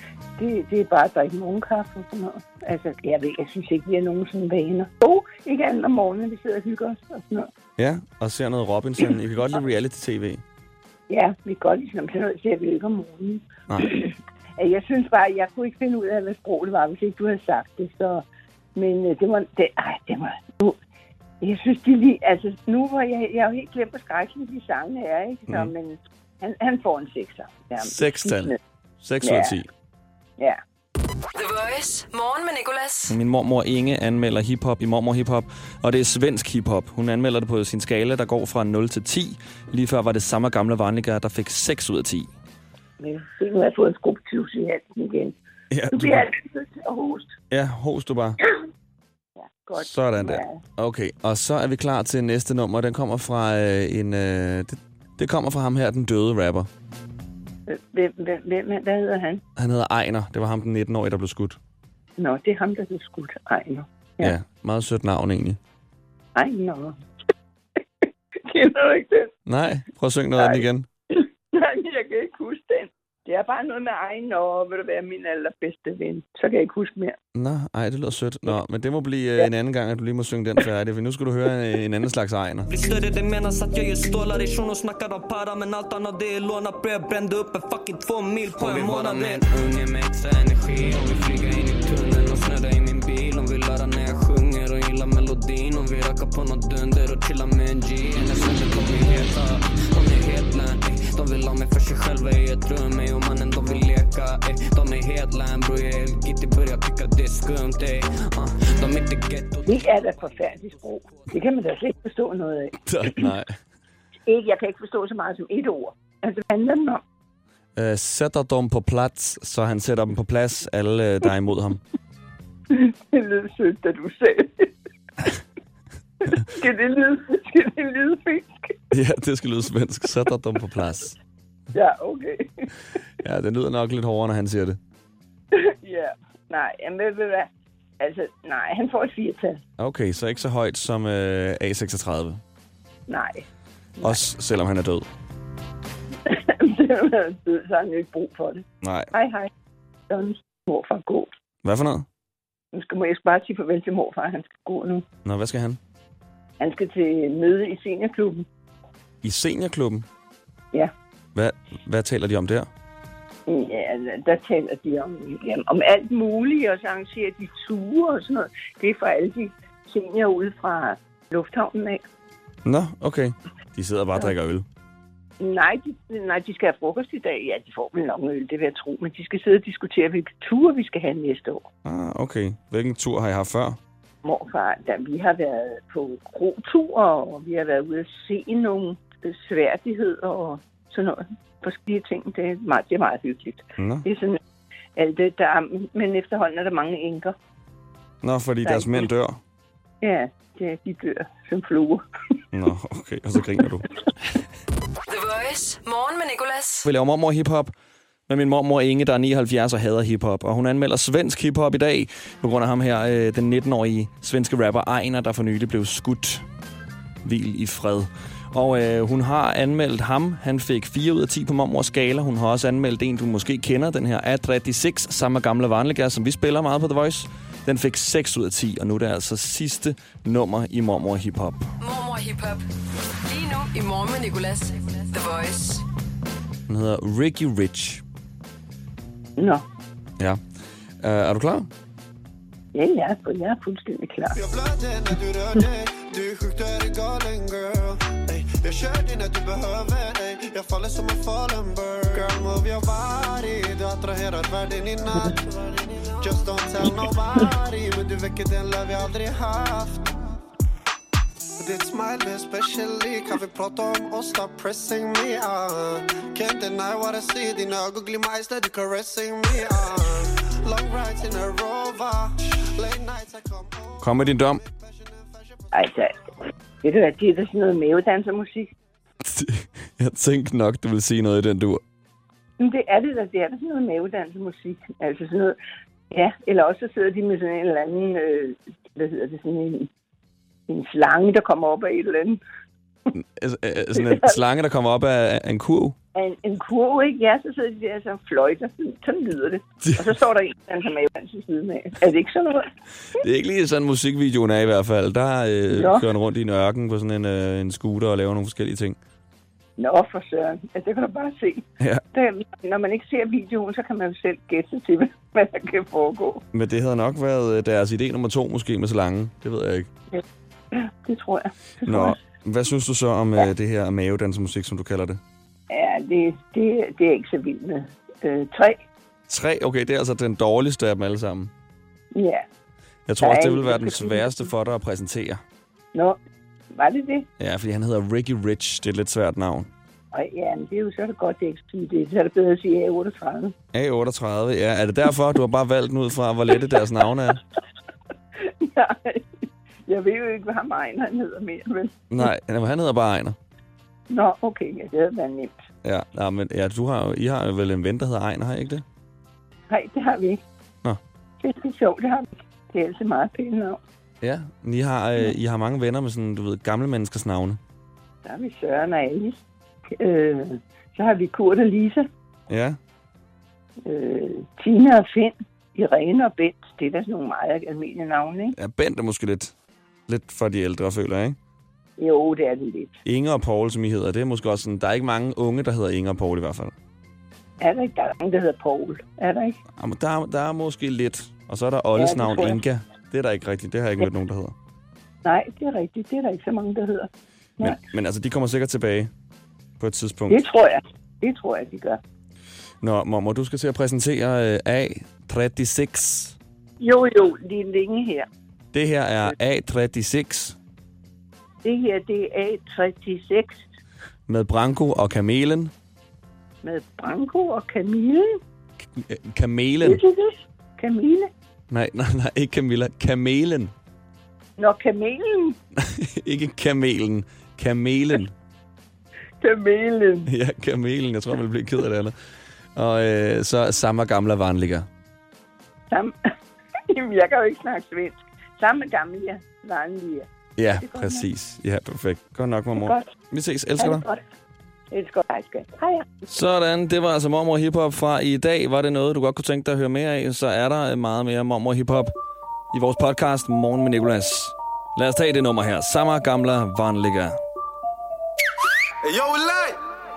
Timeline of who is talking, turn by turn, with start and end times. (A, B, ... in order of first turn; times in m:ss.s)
0:00.4-0:07.5 A
0:07.8-0:10.4 B
0:11.1-0:20.8 A
0:21.4-0:28.6 A
0:27.8-0:29.7 B
0:29.2-0:29.5 A
0:31.3-0:33.2 C
0:33.1-0:42.3 B
0:43.0-0:45.3 A
0:45.7-0:46.3 B
0:45.9-0:47.3 A
0:47.5-0:48.4 B
0:49.4-0:50.6 A
0:49.8-0:56.7 B
0:57.7-0:59.4 A
0:59.6-1:01.6 B
1:02.2-1:04.4 A
1:04.2-1:05.6 B
1:06.3-1:06.9 A
1:08.4-1:09.3 A
1:09.4-1:10.9 B
1:10.4-1:17.2 A
1:17.3-1:22.7 B
1:22.7-1:49.9 D
1:49.6-1:53.3 A
1:52.9-1:53.6 B
1:54.2-1:57.0 A
1:57.8-2:01.8 B
2:02.7-2:04.7 A
2:06.2-2:08.8 A
2:08.9-2:11.2 B
2:11.7-2:12.7 A
2:13.2-2:14.8 B
2:15.5-2:17.5 A
2:18.0-2:19.6 A
2:19.8-2:22.4 B
2:23.1-2:23.4 A
2:24.0-2:25.1 B
2:26.2-2:29.5 A
2:28.8-2:29.1 B
2:30.1-2:31.3 A
2:31.6-2:32.0 B
2:32.7-2:35.0 A
2:35.2-2:35.8 B
2:36.6-2:38.4 A
2:39.2-2:40.0 B
2:41.4-2:42.7 B
2:43.5-2:52.0 A
2:52.6-2:54.6 B
2:55.4-3:01.6 A
3:01.8-3:03.8 B
3:04.2-3:14.4 A
3:13.8-3:14.0 B
3:15.0-3:17.4 A
3:18.2-3:19.4 B
3:18.6-3:19.1 A
3:20.0-3:22.0 A
3:22.5-3:23.9 B
3:25.1-3:26.9 C
3:26.8-3:27.7 B
3:28.3-3:36.4 B
3:37.2-3:51.7 B
3:51.8-3:52.6 C
3:53.2-3:55.8 C
3:56.7-3:58.0 B
3:59.4-3:59.6 A
4:01.0-4:01.7 B
4:02.7-4:04.4 A
4:04.4-4:20.2 E
4:21.6-4:35.6 E
4:34.0-4:34.6 B
4:35.7-4:36.2 A
4:36.8-4:38.7 A
4:39.2-4:41.8 B
4:42.6-4:45.6 A
4:46.1-4:49.9 A
4:50.7-4:52.4 A
4:53.1-4:56.0 B
4:53.9-4:54.4 A
4:56.1-5:02.6 A
5:03.2-5:09.0 B
5:05.7-5:06.0 A
5:09.8-5:16.4 A
5:16.5-5:19.9 B
5:20.1-5:22.2 A
5:21.9-5:25.2 B
5:25.7-5:28.8 A
5:29.3-5:31.5 B
5:32.1-5:32.4 A
5:33.1-5:35.4 B
5:33.2-5:34.5 A
5:36.7-5:37.2 A
5:37.4-5:39.7 B
5:40.1-5:43.5 A
5:43.7-5:47.4 B
5:48.4-5:52.0 A
5:52.1-5:53.4 B
5:54.1-5:55.6 A
5:55.8-5:58.8 B
5:59.7-6:00.4 A
6:01.4-6:03.8 A
6:04.2-6:07.6 B
6:08.2-6:09.4 A
6:09.9-6:12.0 A
6:12.5-6:12.8 B
6:13.8-6:18.6 A
6:18.6-6:19.5 B
6:20.1-6:21.4 B
6:22.0-6:23.0 A
6:23.0-6:26.7 B
6:27.6-6:29.6 A
6:29.8-6:34.5 B
6:32.0-6:32.6 A
6:35.2-6:37.8 A
6:37.6-6:39.1 B
6:39.8-6:40.4 B
6:40.3-6:42.0 A
6:42.8-6:46.4 B
6:46.8-6:48.3 A
6:48.7-6:50.6 B
6:51.6-6:53.6 A
6:54.3-6:55.7 B
6:56.6-6:58.4 A
6:59.0-7:00.0 B
6:59.8-7:01.3 A
7:01.7-7:03.7 B
7:04.6-7:05.6 A
7:05.8-7:08.3 B
7:09.4-7:10.3 A
7:10.3-7:12.1 B
7:12.8-7:14.9 B
7:15.9-7:16.1 A
7:16.9-7:21.2 A
7:20.6-7:24.0 B
7:22.8-7:23.1 A
7:23.8-7:24.2 A
7:24.9-7:26.0 A
7:26.3-7:32.1 B
7:32.7-7:37.4 B